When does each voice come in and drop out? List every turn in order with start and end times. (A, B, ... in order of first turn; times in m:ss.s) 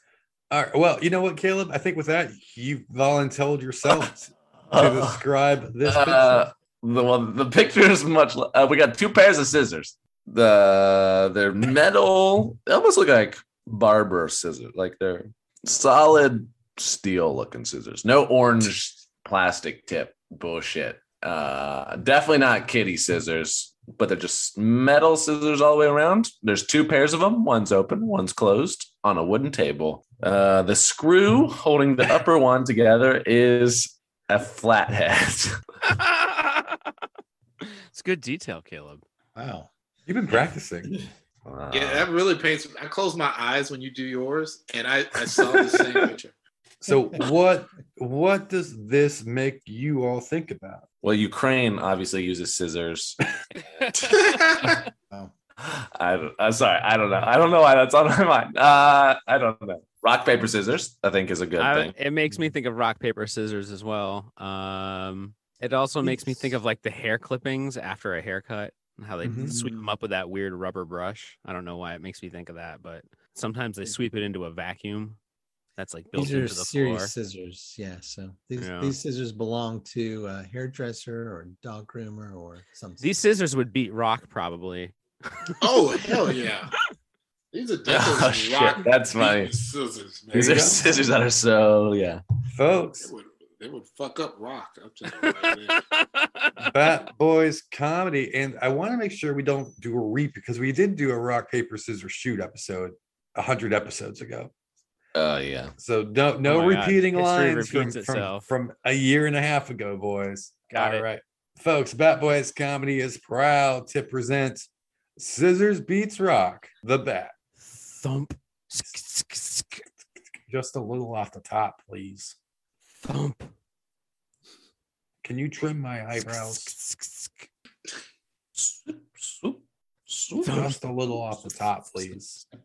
0:00.5-0:06.5 A
0:04.7-0:05.2 B
0:05.8-0:35.6 B
0:35.8-0:36.8 C
0:37.9-0:39.0 C
0:39.4-0:39.7 D
0:40.1-0:41.0 A
0:41.4-0:42.1 B
0:41.7-0:46.3 E
0:45.5-0:46.1 B
0:46.8-0:50.8 A
0:51.0-0:53.2 B
0:54.1-0:54.7 E
0:54.1-0:54.7 B
0:55.6-1:01.9 B
1:01.6-1:15.2 C
1:06.0-1:06.5 D
1:09.2-1:09.5 A
1:09.5-1:09.9 D
1:15.8-1:17.1 C
1:16.1-1:23.0 D
1:18.6-1:18.9 C
1:23.0-1:25.5 C
1:25.6-1:26.7 E
1:27.5-1:30.8 E
1:27.8-1:29.5 B
1:30.3-1:32.2 B
1:30.4-1:30.8 A
1:32.5-1:33.1 A
1:33.0-1:35.8 E
1:35.2-1:36.6 C
1:36.7-1:44.5 A
1:45.1-1:45.7 B
1:45.8-1:57.3 A
1:46.4-1:48.5 C
1:50.7-1:51.0 C
1:57.7-1:59.8 C
2:00.5-2:02.4 A
2:03.0-2:03.5 C
2:05.2-2:06.7 A
2:06.2-2:07.3 C
2:08.6-2:10.5 B
2:10.4-2:10.7 C
2:10.5-2:12.4 A